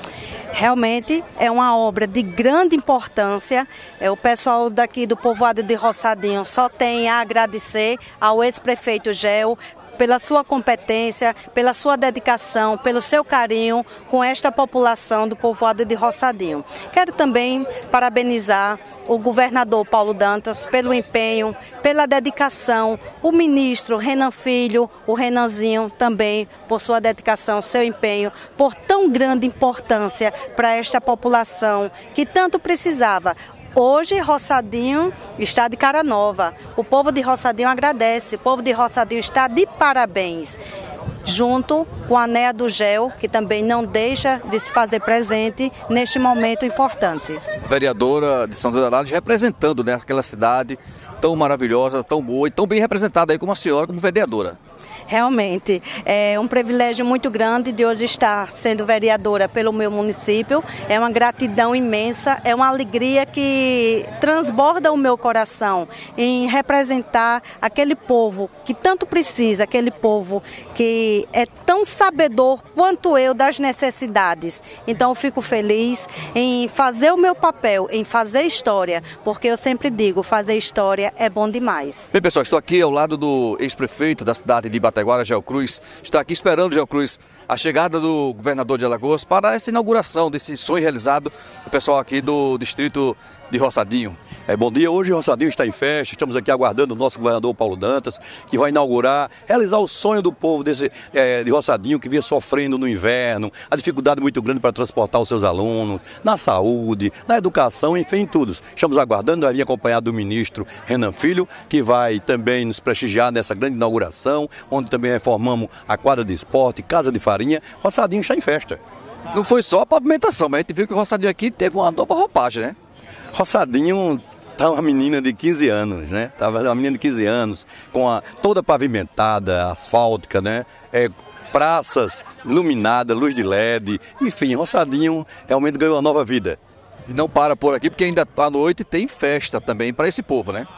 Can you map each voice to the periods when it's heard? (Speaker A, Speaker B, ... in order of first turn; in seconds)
Speaker A: 0.5-40.6, 41.2-47.4, 55.1-82.1
Speaker B: 47.6-54.6, 82.1-94.2, 119.3-122.8, 137.1-140.7
Speaker C: 94.5-118.8, 123.3-136.6